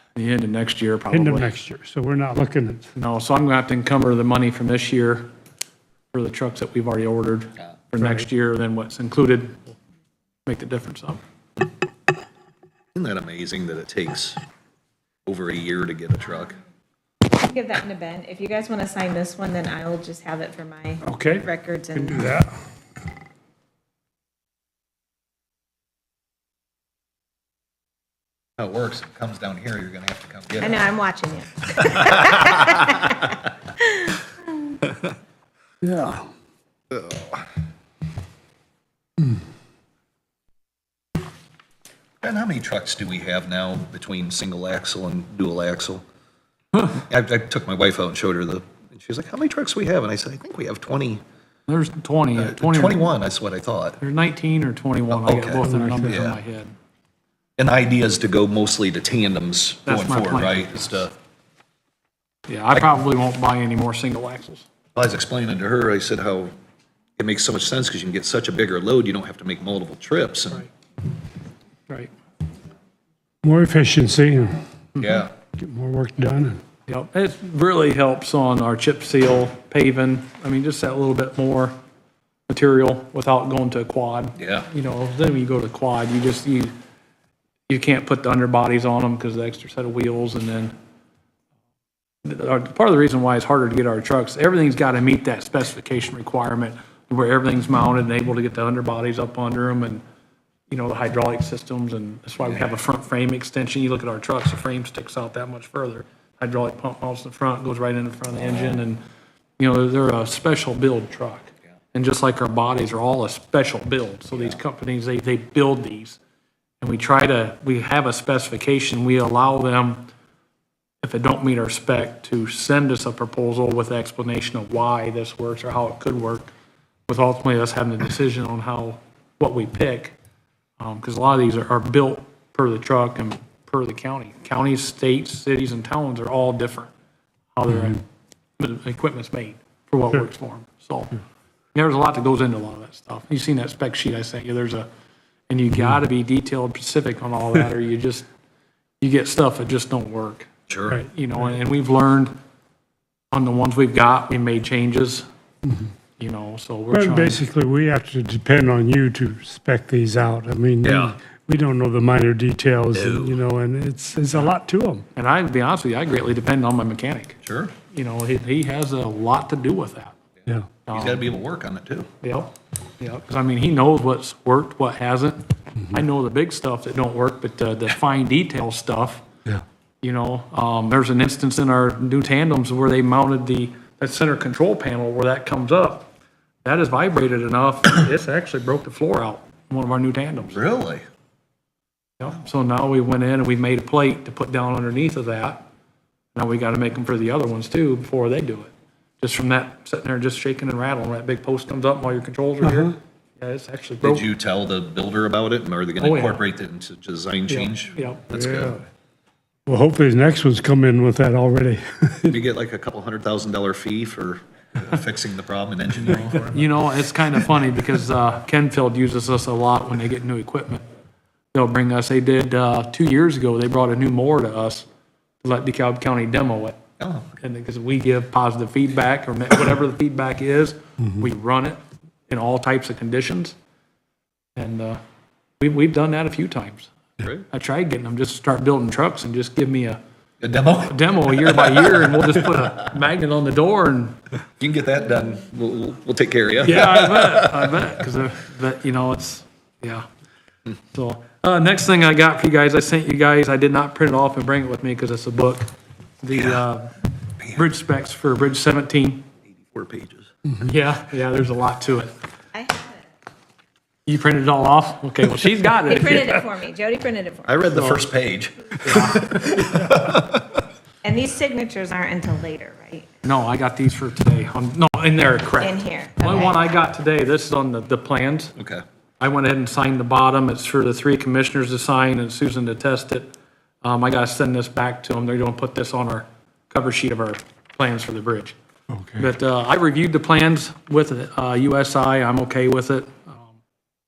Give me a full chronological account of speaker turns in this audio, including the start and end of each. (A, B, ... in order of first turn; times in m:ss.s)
0:00.2-0:01.5 A
0:01.1-0:02.9 B
0:02.9-0:05.3 A
0:06.1-0:09.8 A
0:10.5-0:11.2 A
0:13.0-0:14.4 C
0:15.2-0:16.6 C
0:17.4-0:22.4 D
0:21.1-0:21.4 B
0:22.0-0:22.4 B
0:28.6-0:30.9 C
0:30.6-0:33.2 D
0:31.8-0:32.3 C
0:33.8-0:34.8 D
0:35.8-0:36.2 B
0:36.9-0:37.4 C
0:42.2-0:46.0 C
0:47.0-0:51.2 C
0:51.7-0:53.1 A
0:52.4-0:54.0 C
0:54.0-0:56.7 A
0:55.1-0:56.4 C
0:55.6-0:56.2 B
0:57.6-1:01.1 C
0:59.8-1:01.0 A
1:02.5-1:04.7 A
1:05.0-1:06.5 C
1:07.2-1:10.6 C
1:13.4-1:14.6 B
1:15.0-1:15.2 A
1:15.0-1:15.3 C
1:15.6-1:16.6 B
1:16.9-1:21.8 A
1:22.5-1:26.7 A
1:24.4-1:24.7 C
1:27.7-1:30.7 A
1:32.2-1:40.0 A
1:40.7-1:49.0 A
1:49.6-1:56.2 A
1:56.8-2:00.0 A
2:01.0-2:06.5 A
2:07.1-2:10.2 A
2:10.8-2:16.9 A
2:17.6-2:18.0 A
2:18.6-2:21.1 A
2:21.7-2:24.9 A
2:25.5-2:28.3 A
2:29.0-2:32.3 A
2:30.7-2:31.0 C
2:33.3-2:35.2 A
2:36.2-2:37.4 A
2:36.9-2:45.1 B
2:40.8-2:41.2 C
2:42.9-2:43.4 C
2:45.1-2:47.4 A
2:47.4-2:47.7 C
2:47.9-2:50.2 A
2:50.8-2:51.3 A
2:50.9-2:52.1 C
2:52.2-2:59.2 A
3:00.0-3:06.1 A
3:06.6-3:10.6 A
3:10.5-3:11.0 C
3:12.2-3:15.6 A
3:16.3-3:24.2 A
3:22.6-3:22.9 B
3:24.0-3:28.8 C
3:26.0-3:26.4 A
3:27.5-3:28.2 A
3:28.3-3:28.8 B
3:29.7-3:32.4 B
3:32.3-3:36.6 C
3:36.0-3:40.8 A
3:41.5-3:44.8 A
3:45.4-3:46.8 A
3:47.0-3:47.3 C
3:47.4-3:53.6 A
3:54.6-3:55.0 A
3:55.6-3:56.9 A
3:57.5-4:00.0 A
4:00.4-4:02.4 C
4:00.8-4:04.2 A
4:04.6-4:07.7 C
4:06.6-4:10.1 A
4:10.9-4:15.7 A
4:16.2-4:17.0 A
4:16.3-4:16.6 C
4:17.5-4:19.2 A
4:19.5-4:20.3 C
4:20.6-4:22.1 A
4:22.5-4:23.0 D
4:24.1-4:26.4 A
4:25.9-4:28.0 D
4:27.5-4:30.6 C
4:28.8-4:29.9 A
4:31.0-4:33.1 D
4:33.2-4:38.6 A
4:35.6-4:36.6 D
4:39.2-4:43.3 A
4:43.8-4:48.6 A
4:48.9-4:49.3 B
4:49.2-4:53.5 A